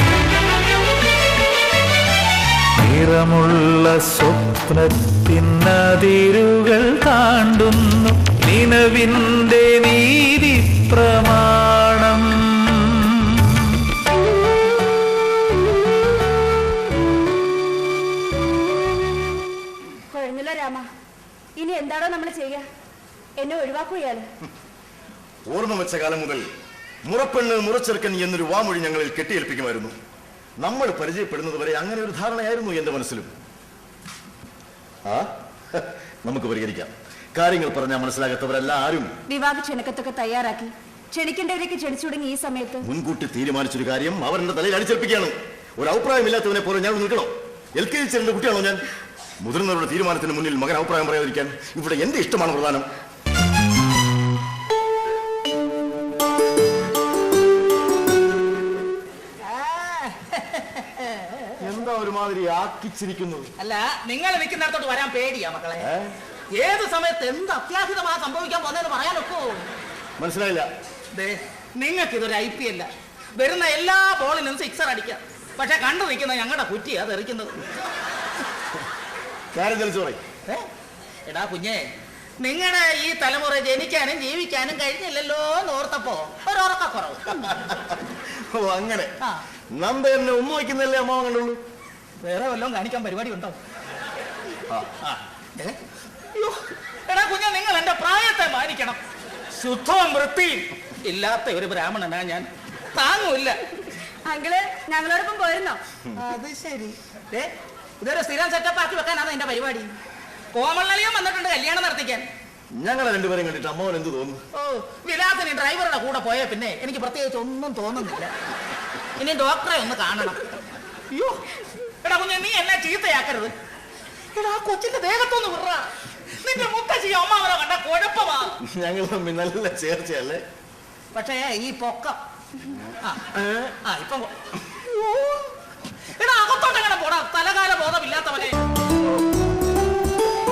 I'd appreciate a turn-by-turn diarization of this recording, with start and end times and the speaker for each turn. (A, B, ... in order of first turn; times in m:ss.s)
0:02.8-0:13.7 A
0:20.1-0:20.9 B
0:21.6-0:22.7 B
0:23.4-0:24.2 B
0:25.5-0:26.4 C
0:27.0-0:29.9 C
0:30.6-0:33.3 C
0:35.1-0:39.1 C
0:39.3-0:42.9 B
0:42.8-0:48.8 C
0:49.4-0:52.8 C
0:59.4-1:01.6 D
1:01.6-1:03.5 C
1:03.6-1:05.9 D
1:05.8-1:06.1 C
1:06.5-1:09.7 D
1:10.2-1:10.7 C
1:11.1-1:17.6 D
1:19.5-1:20.2 C
1:21.2-1:21.9 D
1:22.4-1:27.5 D
1:27.4-1:29.1 C
1:29.7-1:31.6 C
1:32.2-1:33.6 D
1:35.0-1:35.8 D
1:36.3-1:39.0 D
1:39.5-1:43.6 D
1:44.2-1:45.8 B
1:46.2-1:49.9 D
1:50.5-1:52.2 D
1:52.8-1:54.4 C
1:54.5-1:58.3 D
1:59.2-2:00.5 D
2:01.1-2:01.4 D
2:02.0-2:03.5 D
2:04.3-2:08.5 D
2:08.6-2:10.4 C
2:11.1-2:12.2 D
2:13.0-2:13.3 D
2:13.3-2:13.7 C
2:13.8-2:15.5 D
2:16.1-2:18.6 D